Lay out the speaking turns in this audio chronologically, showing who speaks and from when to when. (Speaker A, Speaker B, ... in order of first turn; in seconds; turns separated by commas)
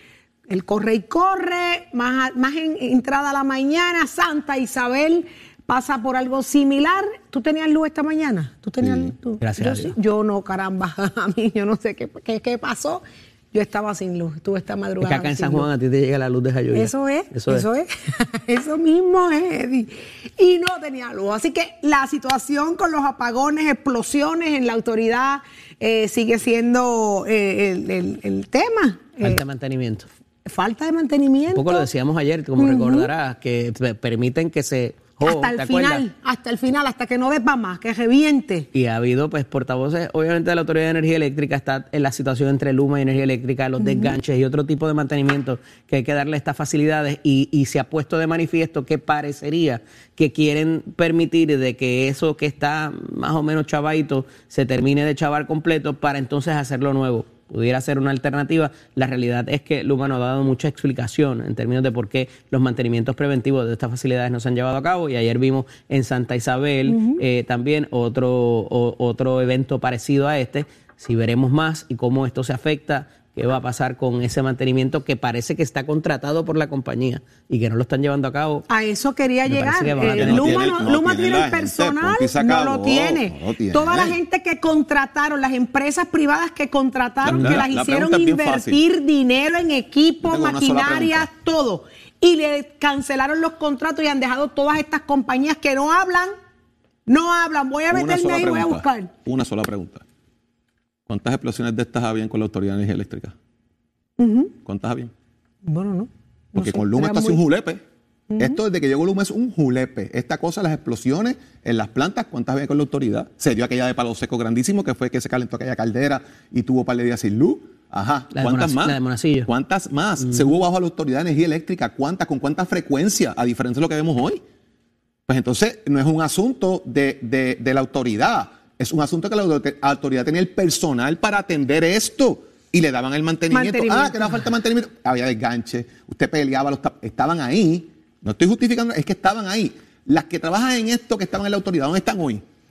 Speaker A: 0.5-15.7, Speaker B: 8.8-9.1, Speaker C: 9.4-9.9, Speaker C: 15.0-17.6, Speaker A: 16.7-29.4, Speaker C: 29.2-30.1, Speaker A: 30.4-31.9, Speaker C: 31.5-36.0, Speaker A: 32.6-33.1, Speaker A: 35.2-38.7, Speaker C: 38.7-78.7, Speaker A: 43.8-44.1, Speaker A: 66.9-67.2, Speaker A: 78.7-96.3, Speaker C: 79.5-80.8, Speaker B: 80.1-84.2, Speaker B: 87.2-88.8, Speaker C: 87.3-87.6, Speaker B: 90.2-91.3, Speaker A: 97.1-99.1, Speaker B: 97.9-100.0, Speaker B: 101.1-103.3, Speaker A: 104.2-104.5, Speaker B: 104.6-105.1, Speaker A: 105.6-107.4, Speaker B: 106.5-107.8, Speaker A: 108.3-108.6, Speaker B: 108.4-124.4, Speaker C: 118.3-119.5, Speaker C: 120.2-120.5, Speaker B: 125.3-142.4, Speaker A: 133.5-134.5